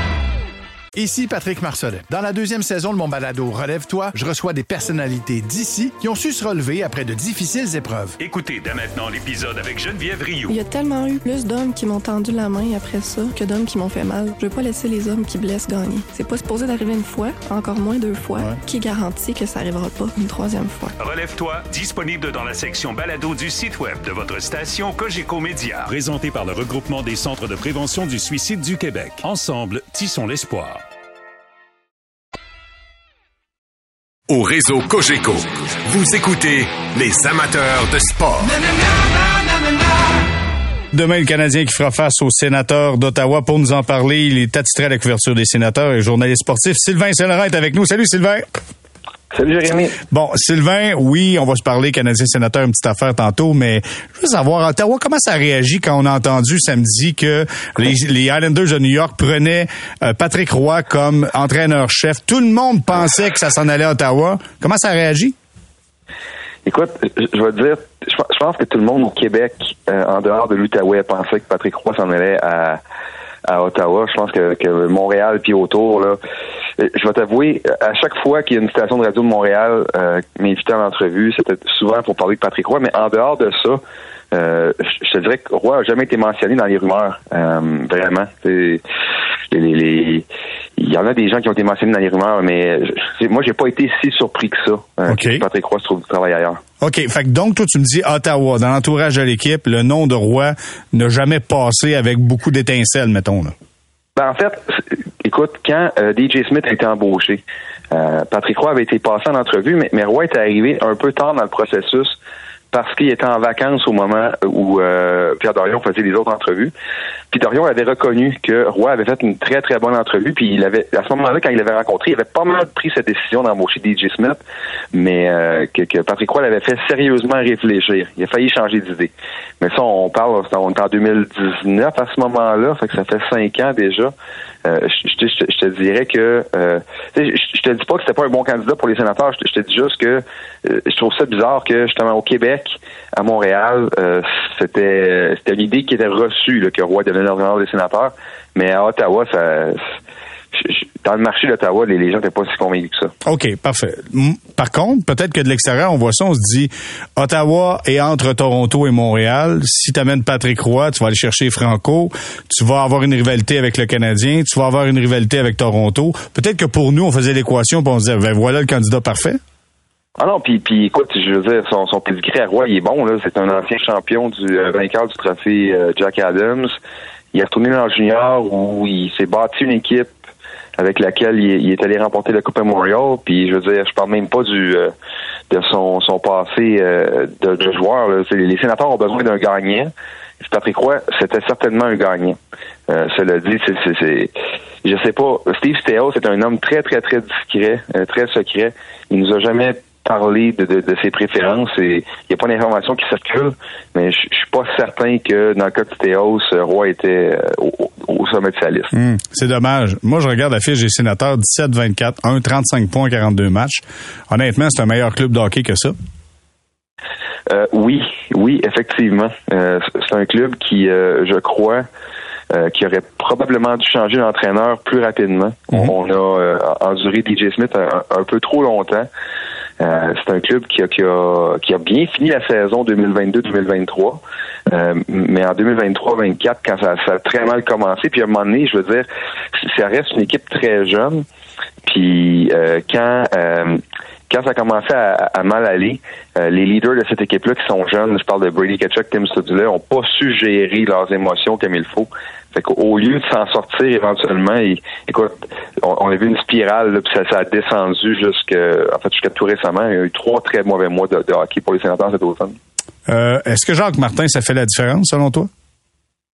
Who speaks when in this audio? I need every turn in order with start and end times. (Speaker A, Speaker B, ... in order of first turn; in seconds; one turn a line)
Speaker A: 0.9-8.2
Speaker B: 8.2-10.6
Speaker C: 10.5-20.9
Speaker B: 21.0-30.8
Speaker D: 34.3-38.6
Speaker E: 40.9-48.5
Speaker F: 49.3-50.0
Speaker E: 50.1-65.3
Speaker F: 66.7-72.8
Speaker F: 73.5-76.2
Speaker F: 76.8-83.8
Speaker F: 84.3-88.8
Speaker F: 89.5-90.2
Speaker F: 90.8-96.6
Speaker E: 95.1-95.4
Speaker E: 96.8-103.5
Speaker F: 104.2-112.2
Speaker F: 112.7-116.7
Speaker F: 117.3-124.4
Speaker F: 124.9-134.1
Speaker F: 134.6-149.8
Speaker F: 150.5-153.1
Speaker E: 153.2-169.4
Speaker F: 170.2-176.8
Speaker F: 177.3-180.1
Speaker F: 180.8-184.9
Speaker F: 185.5-192.4
Speaker F: 192.9-194.3
Speaker F: 194.8-208.9
Speaker E: 208.9-215.9
Speaker F: 217.5-221.8
Speaker F: 222.5-229.1
Speaker F: 229.8-241.2
Speaker F: 241.8-262.6
Speaker E: 263.1-265.5